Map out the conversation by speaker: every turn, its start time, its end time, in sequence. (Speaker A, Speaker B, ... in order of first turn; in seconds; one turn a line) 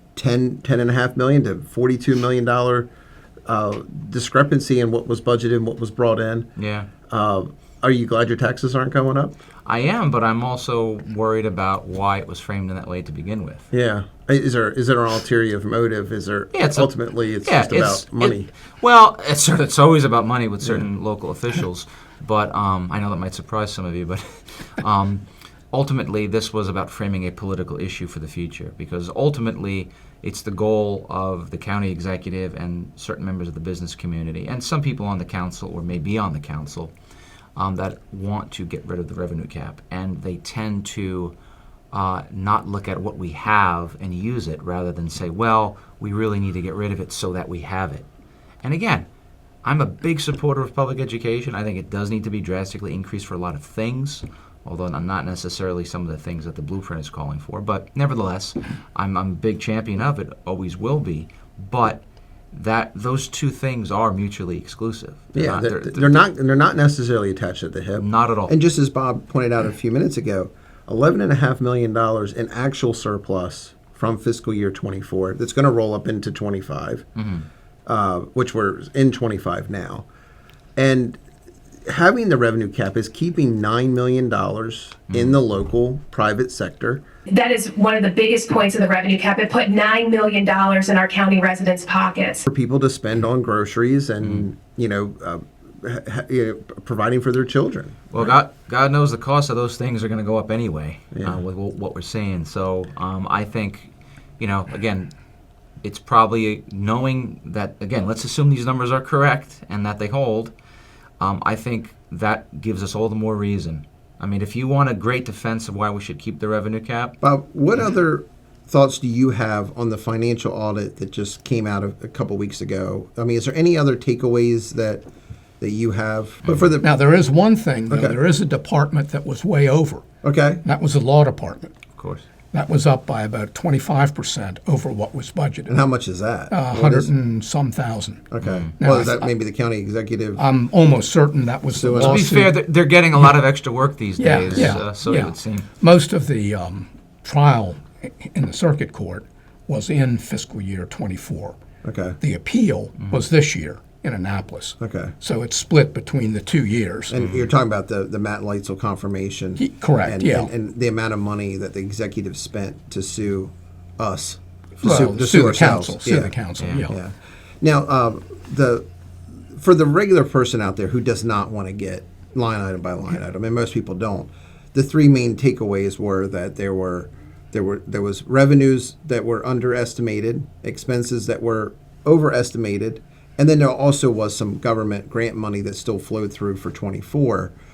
Speaker A: 0.1-2.9
Speaker A: 3.5-6.5
Speaker B: 6.6-6.9
Speaker A: 7.1-9.3
Speaker B: 9.6-13.7
Speaker A: 13.7-18.5
Speaker B: 16.5-16.9
Speaker B: 17.4-36.9
Speaker B: 37.5-41.3
Speaker B: 41.9-48.1
Speaker B: 48.6-49.1
Speaker B: 49.6-62.0
Speaker B: 62.5-66.2
Speaker A: 65.3-77.0
Speaker B: 68.0-68.5
Speaker B: 77.2-77.5
Speaker A: 77.8-80.0
Speaker A: 80.8-81.2
Speaker A: 81.9-87.0
Speaker B: 85.1-85.3
Speaker C: 87.3-92.5
Speaker A: 92.5-98.4
Speaker B: 98.1-105.1
Speaker A: 101.1-101.4
Speaker B: 105.8-110.5
Speaker B: 111.2-117.2
Speaker A: 117.2-125.0
Speaker A: 125.6-126.9
Speaker D: 126.8-130.0
Speaker A: 127.9-128.2
Speaker A: 130.2-130.6
Speaker D: 130.6-131.7
Speaker B: 132.0-132.2
Speaker D: 132.5-135.8
Speaker A: 135.7-137.1
Speaker D: 136.5-138.2
Speaker A: 138.3-140.4
Speaker B: 138.4-138.7
Speaker D: 138.8-139.3
Speaker D: 140.3-142.5
Speaker A: 141.7-142.3
Speaker B: 142.0-145.7
Speaker D: 144.2-151.6
Speaker A: 151.8-152.2
Speaker D: 152.2-157.1
Speaker A: 154.8-155.1
Speaker A: 157.1-166.3
Speaker D: 159.6-160.5
Speaker D: 164.8-167.0
Speaker B: 166.6-166.9
Speaker A: 166.9-168.9
Speaker A: 169.5-187.5